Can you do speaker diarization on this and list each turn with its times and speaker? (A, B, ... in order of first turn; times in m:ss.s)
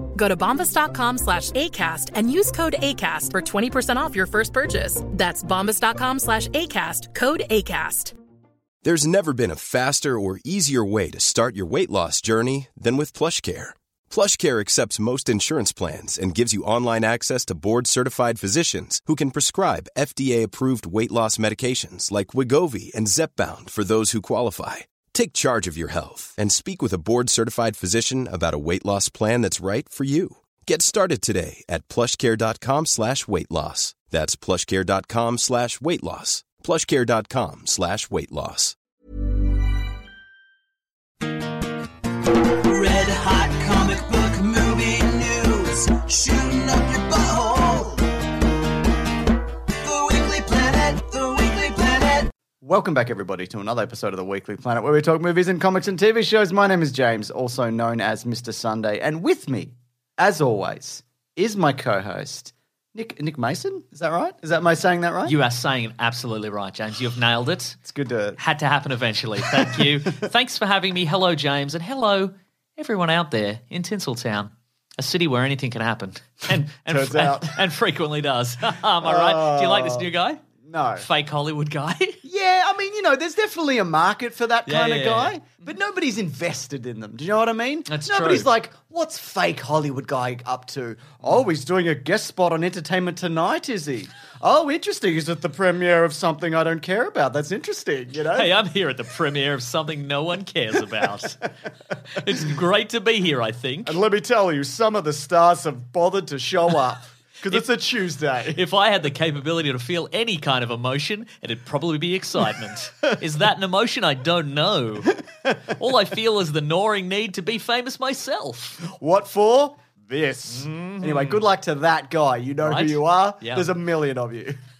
0:00.2-0:08.1 A
0:08.8-0:38.8 B
0:43.0-0:43.5 C
0:43.6-0:47.9 D
0:44.3-0:45.5 C
0:46.4-0:47.1 C
0:50.1-0:51.4 C
0:50.2-0:52.0 D
0:52.6-1:05.4 C
1:05.3-1:07.8 E
1:07.8-1:08.4 C
1:08.4-1:20.4 E
1:09.5-1:09.9 C
1:16.9-1:17.6 C
1:19.0-1:21.1 C
1:21.0-1:22.2 E
1:22.2-1:38.5 C
1:24.7-1:25.4 E
1:27.9-1:28.5 E
1:38.3-1:41.4 E
1:41.0-1:41.3 C
1:42.0-1:44.0 E
1:43.9-1:48.6 C
1:48.5-1:58.8 E
1:58.8-2:04.6 C
2:00.5-2:01.4 E
2:02.6-2:03.7 E